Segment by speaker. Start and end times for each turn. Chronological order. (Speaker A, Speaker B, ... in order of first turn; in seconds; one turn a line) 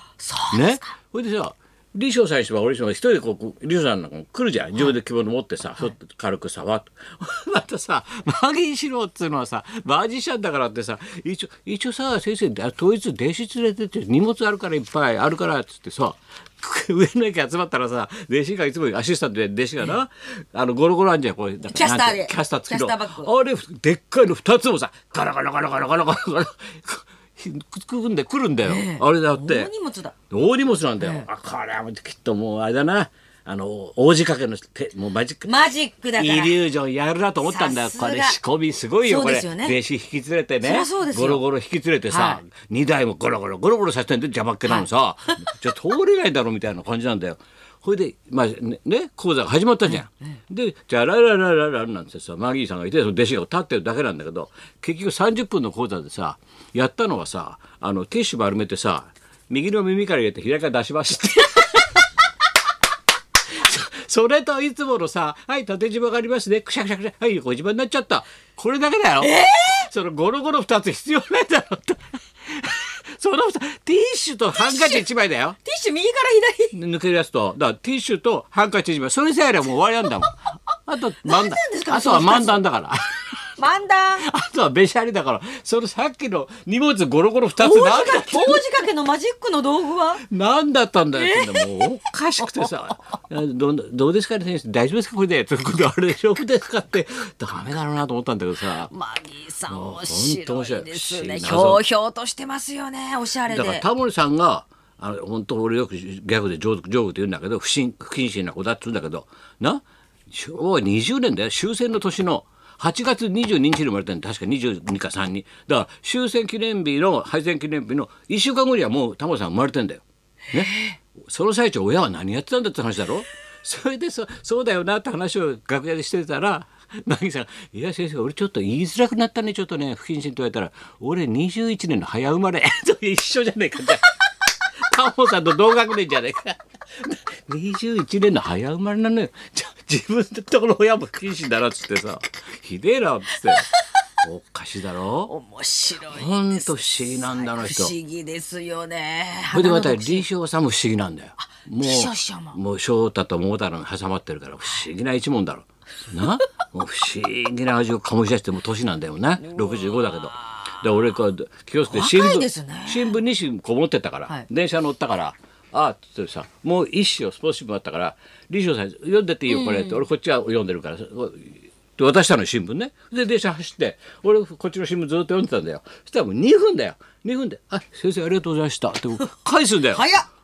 Speaker A: 0.2-0.9
Speaker B: 0.5-29.7
Speaker A: 21.7-23.3
Speaker A: 28.6-30.1
Speaker B: 30.3-35.6
Speaker A: 31.0-31.3
Speaker A: 35.5-36.6
Speaker B: 36.2-62.0
Speaker A: 37.4-38.4
Speaker A: 39.0-39.8
Speaker A: 40.6-41.4
Speaker A: 42.1-42.4
Speaker B: 63.5-75.6
Speaker A: 69.2-69.9
Speaker A: 74.5-75.1
Speaker A: 75.7-76.8
Speaker B: 76.7-83.5
Speaker A: 81.2-82.6
Speaker A: 83.6-84.3
Speaker B: 84.2-88.7
Speaker A: 87.6-90.2
Speaker B: 90.2-98.9
Speaker A: 91.2-91.7
Speaker A: 92.4-92.7
Speaker A: 98.7-103.8
Speaker B: 99.7-101.8
Speaker B: 103.5-134.1
Speaker A: 120.7-121.0
Speaker B: 134.8-143.7
Speaker A: 143.5-143.8
Speaker B: 144.2-145.3
Speaker A: 145.3-150.3
Speaker B: 146.1-147.9
Speaker B: 149.5-180.1
Speaker A: 151.4-152.6
Speaker A: 159.4-160.6
Speaker A: 161.9-163.2
Speaker A: 169.5-170.0
Speaker A: 179.9-180.3